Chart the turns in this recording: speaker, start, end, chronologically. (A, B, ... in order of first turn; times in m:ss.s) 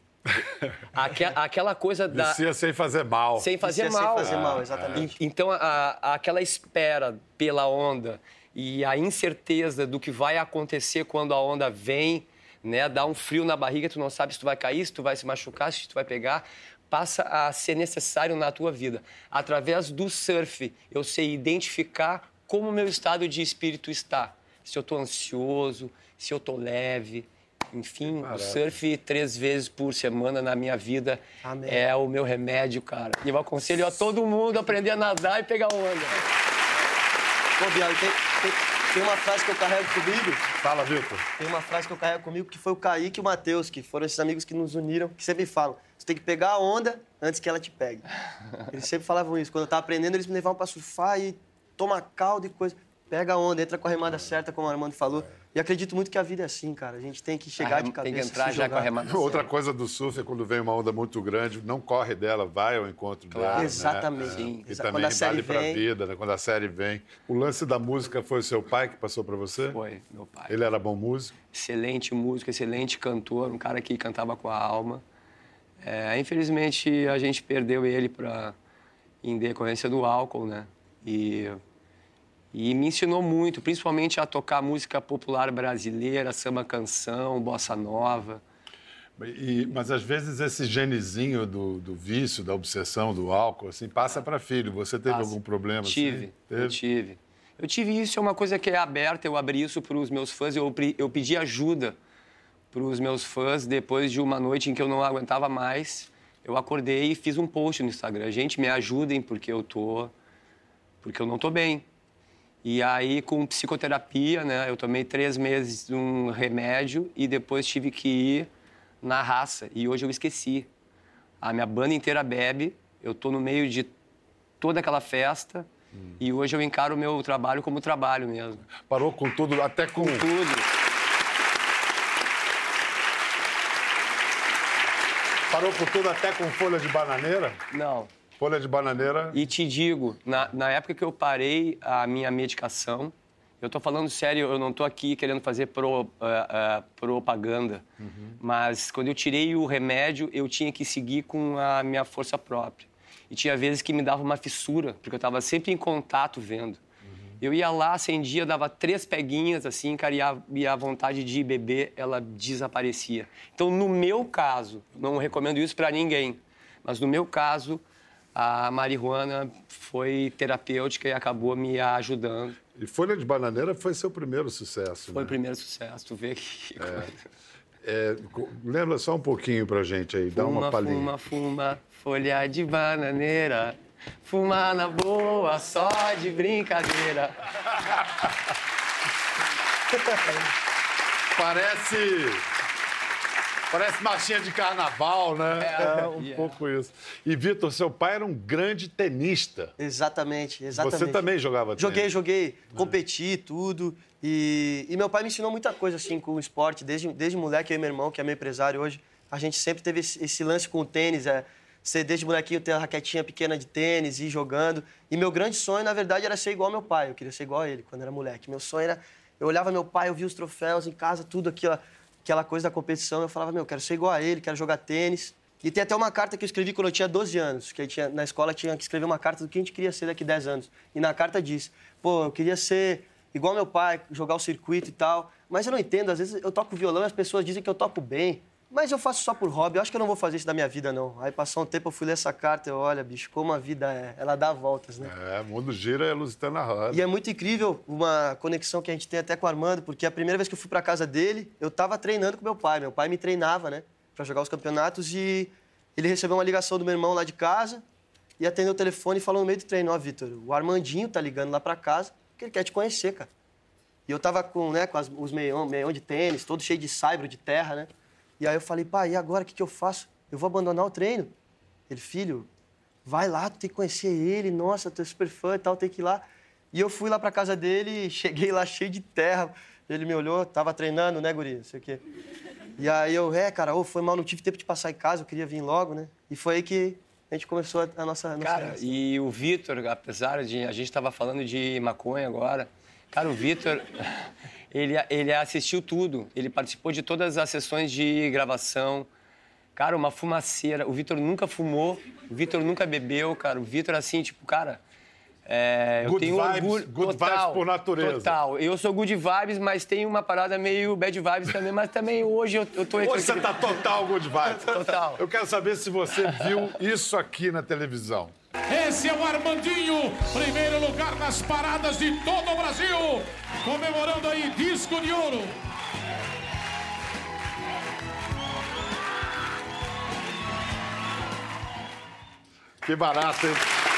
0:00.3-0:00.8 A
0:00.9-0:02.4 B
0:02.1-0:03.5 A
0:03.4-0:36.2 B
0:03.6-0:05.1 C
0:04.2-0:05.1 A
0:28.1-0:28.7 A
0:31.4-0:31.8 C
0:37.6-0:40.5 C
0:40.6-0:41.3 A
0:41.4-0:48.0 C
0:48.7-0:58.9 C
0:57.6-0:59.5 B
0:59.0-1:09.8 A
1:03.3-1:04.7 B
1:03.5-1:05.8 C
1:09.7-1:10.6 B
1:10.5-1:11.3 A
1:11.5-1:15.0 B
1:15.8-1:18.5 B
1:19.2-1:21.6 B
1:22.5-1:28.4 B
1:29.2-1:36.8 A
1:35.1-1:42.0 B
1:42.7-1:50.1 B
1:51.0-1:51.8 B
1:52.6-1:58.5 B
1:59.0-2:00.7 B
2:01.4-2:03.9 B
2:04.6-2:05.7 B
2:06.2-2:08.7 B
2:08.8-2:10.3 A
2:09.9-2:10.7 B
2:15.5-2:17.6 A
2:17.7-2:18.1 B
2:18.4-2:19.4 A
2:19.3-2:27.8 B
2:28.0-2:28.4 A
2:28.4-2:36.8 B
2:37.4-2:47.8 B
2:48.3-2:52.6 B
2:52.7-2:55.4 A
2:55.1-2:57.2 B
2:56.8-2:57.1 A
2:57.8-3:01.1 A
3:00.3-3:07.5 B
3:07.8-3:08.3 A
3:11.3-3:12.4 A
3:13.7-3:19.7 A
3:15.6-3:16.6 B
3:19.8-3:21.2 C
3:20.7-3:22.1 A
3:21.8-4:05.1 C
4:05.0-4:07.0 A
4:06.9-4:17.8 C
4:18.4-4:23.3 C
4:24.1-4:31.3 C
4:31.9-4:32.5 C
4:33.0-4:42.0 C
4:42.8-4:49.0 C
4:48.4-4:59.1 B
4:59.8-5:04.8 B
5:05.4-5:13.7 B
5:06.0-5:08.4 A
5:13.0-5:18.3 A
5:14.6-5:15.2 B
5:16.3-5:16.7 B
5:18.7-5:25.5 D
5:32.8-5:33.6 A